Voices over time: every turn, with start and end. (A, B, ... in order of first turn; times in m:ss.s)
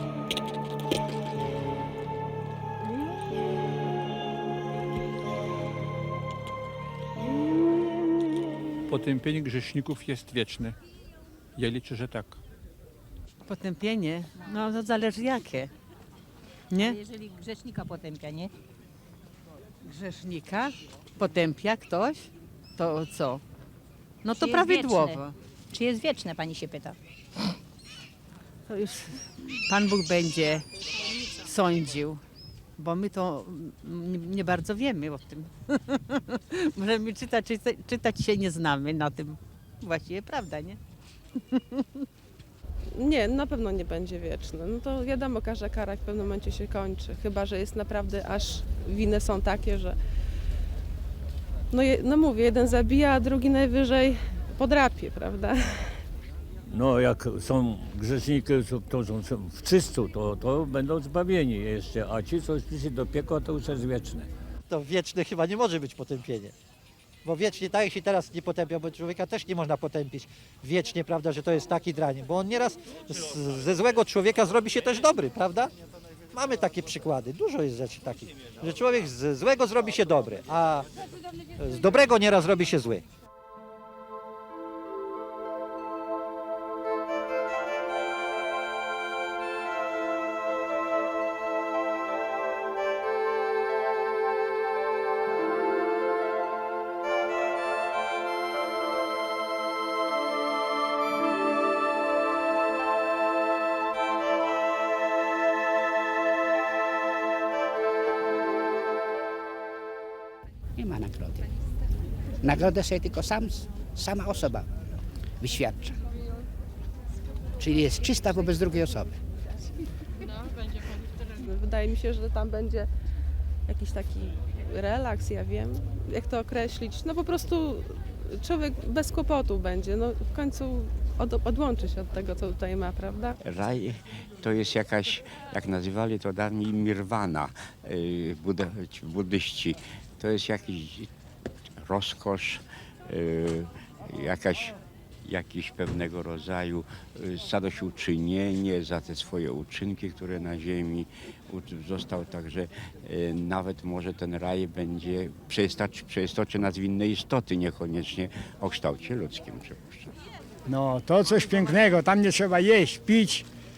0:08.9-0:10.7 A
0:11.6-0:12.4 A
0:13.4-0:15.7 B
0:16.7-0:17.0 B
0:17.1-0:18.5 C
0:19.8-0:23.4 B
0:24.2-0:25.4 B
0:24.5-0:24.9 C
0:26.0-0:26.9 C
0:28.7-0:30.6 B
0:31.4-0:32.2 B
0:32.8-0:40.8 B
0:42.9-0:50.0 D
0:51.7-0:56.0 D
0:56.7-1:04.3 E
1:04.7-1:06.5 F
1:07.2-1:15.7 F
1:16.3-1:20.8 F
1:21.6-1:23.0 F
1:50.8-1:51.5 G
1:52.4-1:54.7 G
1:55.4-1:56.0 G
1:57.6-1:59.2 G
2:01.2-2:02.9 D
2:03.7-2:13.4 D
2:13.4-2:21.1 H
2:21.8-2:40.1 H
2:40.7-2:43.4 I